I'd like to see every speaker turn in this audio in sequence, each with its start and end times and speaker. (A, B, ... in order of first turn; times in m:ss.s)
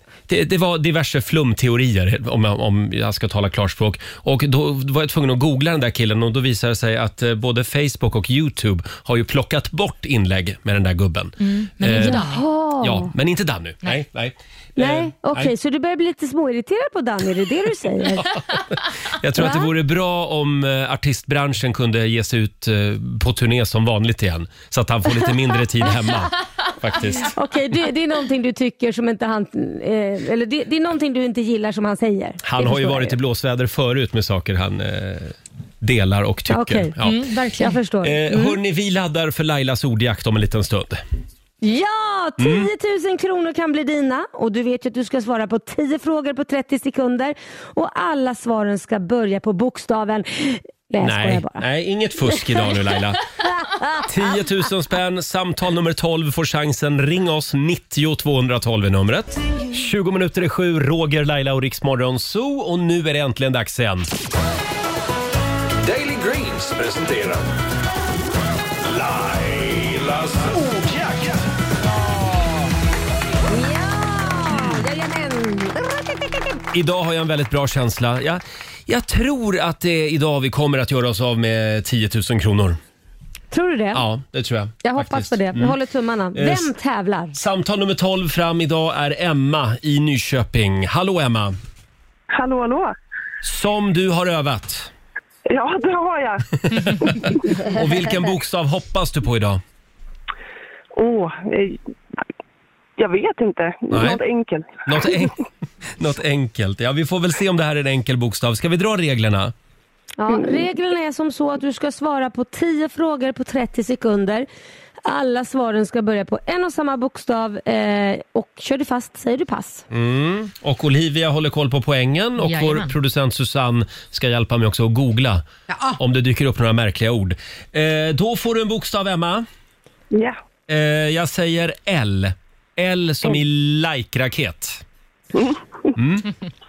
0:00.3-0:12.2 A
0:11.4-0:12.4 B
0:12.0-0:13.1 C
0:12.8-0:15.5 A
0:14.8-0:18.3 C
0:18.2-0:27.3 A
0:19.4-0:19.7 C
0:27.2-0:33.2 C
0:32.4-0:37.2 A
0:36.5-0:36.9 C
0:37.0-0:37.8 B
0:37.6-0:38.6 C
0:38.0-0:41.0 A
0:41.6-0:51.6 C
0:42.4-0:42.7 A
0:51.0-0:53.2 A
0:53.6-0:54.1 C
0:54.0-1:04.1 A
1:05.8-1:07.5 D
1:08.8-1:11.5 D
1:13.5-1:16.3 C
1:16.7-1:22.8 A
1:23.5-1:24.0 C
1:23.9-1:25.8 A
1:24.8-1:27.4 C
1:26.3-1:26.7 A
1:27.3-1:31.6 A
1:32.3-1:33.0 E
1:33.4-1:34.9 A
1:35.5-1:37.4 E
1:36.8-1:39.6 A
1:40.9-1:41.8 E
1:43.0-1:45.3 E
1:43.9-1:44.2 A
1:44.9-1:45.4 A
1:46.0-1:49.5 A
1:50.2-1:54.5 C
1:55.0-1:59.9 C
1:59.9-2:09.5 A
2:02.4-2:02.9 B
2:10.1-2:10.4 E
2:10.7-2:14.8 A
2:15.3-2:15.9 E
2:16.0-2:16.3 A